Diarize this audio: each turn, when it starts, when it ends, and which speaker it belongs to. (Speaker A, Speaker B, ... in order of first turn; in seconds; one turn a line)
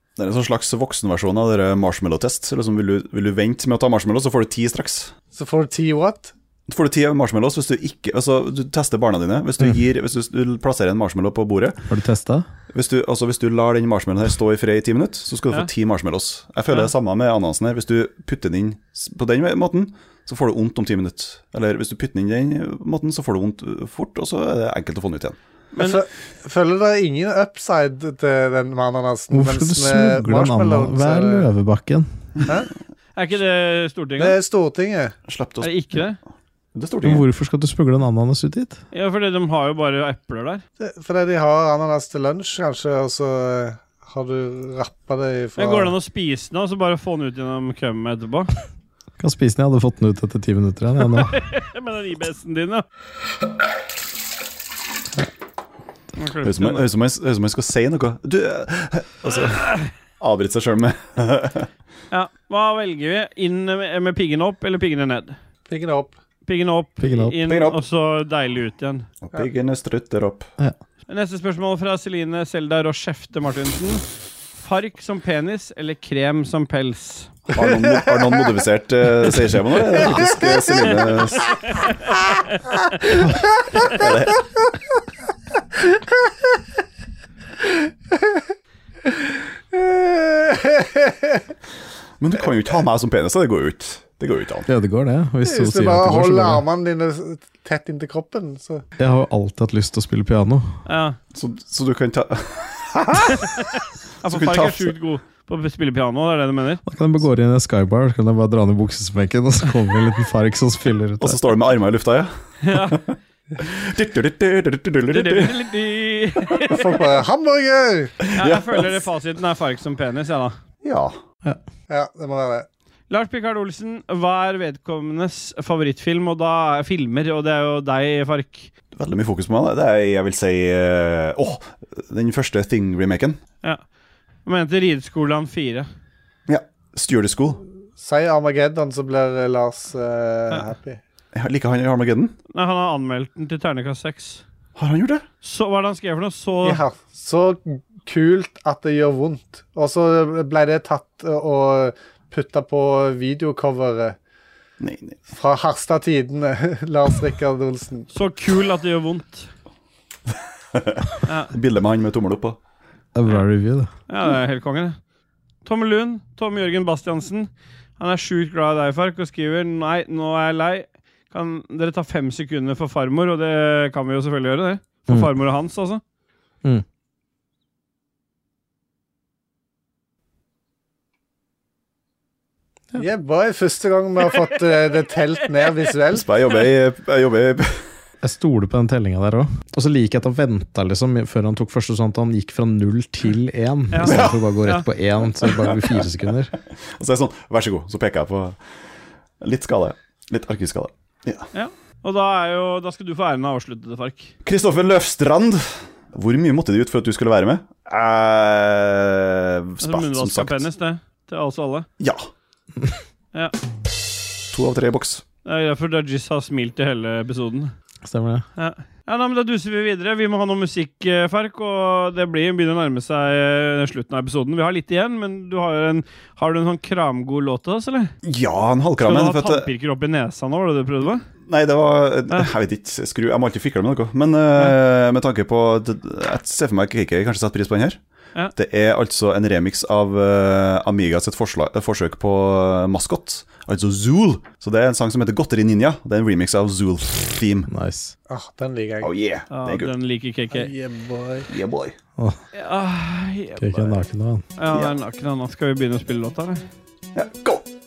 Speaker A: 0.2-5.1
Speaker B: 5.3-6.3
Speaker A: 6.7-11.8
Speaker C: 11.9-12.5
Speaker A: 12.7-25.4
Speaker D: 25.7-26.0
Speaker B: 25.8-31.5
Speaker C: 29.3-32.3
Speaker D: 33.2-34.4
Speaker B: 34.2-35.1
Speaker A: 35.3-36.0
Speaker D: 35.6-36.2
Speaker A: 36.8-37.2
Speaker C: 37.0-38.8
Speaker D: 38.9-40.6
Speaker B: 40.8-46.0
Speaker D: 45.6-48.5
Speaker C: 49.2-51.4
Speaker D: 51.2-52.9
Speaker D: 56.2-56.9
Speaker A: 56.4-61.7
Speaker D: 62.1-65.4
Speaker B: 65.7-66.1
Speaker D: 66.5-69.1
Speaker C: 67.0-67.4
Speaker A: 67.5-67.8
Speaker A: 69.2-70.5
Speaker D: 71.1-74.0
Speaker D: 74.5-77.4
Speaker A: 77.5-81.8
Speaker B: 80.1-81.2
Speaker A: 83.8-84.5
Speaker B: 88.1-88.4
Speaker B: 89.7-91.4
Speaker A: 92.2-94.7
Speaker C: 94.7-96.6
Speaker B: 95.4-98.8
Speaker C: 99.0-100.8
Speaker D: 100.9-101.2
Speaker A: 101.3-103.5
Speaker D: 104.2-106.8
Speaker A: 104.2-105.0
Speaker C: 106.8-111.4
Speaker A: 111.2-115.5
Speaker D: 112.6-113.0
Speaker D: 115.1-116.9
Speaker B: 116.7-118.2
Speaker A: 118.2-119.0
Speaker D: 118.4-120.6
Speaker A: 120.8-121.2
Speaker B: 121.9-122.7
Speaker D: 123.1-128.7
Speaker A: 128.9-133.4
Speaker D: 134.4-135.9
Speaker A: 136.5-137.6
Speaker B: 138.0-141.0
Speaker A: 141.3-142.3
Speaker D: 142.5-144.4
Speaker A: 144.8-145.2
Speaker D: 145.4-146.8
Speaker B: 146.6-154.2
Speaker A: 154.8-155.2
Speaker B: 155.3-158.1
Speaker D: 158.1-159.5
Speaker A: 160.8-162.6
Speaker D: 161.3-161.5
Speaker C: 163.2-163.9
Speaker D: 164.1-165.0
Speaker D: 165.7-176.0
Speaker B: 183.0-186.3
Speaker A: 186.1-187.9
Speaker C: 188.2-196.6
Speaker D: 193.9-194.8
Speaker A: 194.0-194.5
Speaker A: 195.4-196.0
Speaker A: 196.9-198.6
Speaker A: 199.4-201.5
Speaker D: 201.5-204.3
Speaker A: 204.4-210.7
Speaker D: 209.8-211.9
Speaker A: 212.0-212.3
Speaker A: 214.5-215.2
Speaker D: 215.4-217.7
Speaker C: 218.0-218.4
Speaker D: 218.6-228.1
Speaker A: 228.2-229.7
Speaker D: 229.0-231.2
Speaker A: 231.5-238.0
Speaker A: 238.5-247.7
Speaker C: 247.7-248.1
Speaker B: 248.3-249.1
Speaker A: 249.0-249.9
Speaker D: 249.5-250.7
Speaker B: 250.5-251.5
Speaker A: 251.5-251.9
Speaker D: 252.5-254.0
Speaker C: 253.6-254.4
Speaker D: 254.6-256.6
Speaker A: 257.1-257.6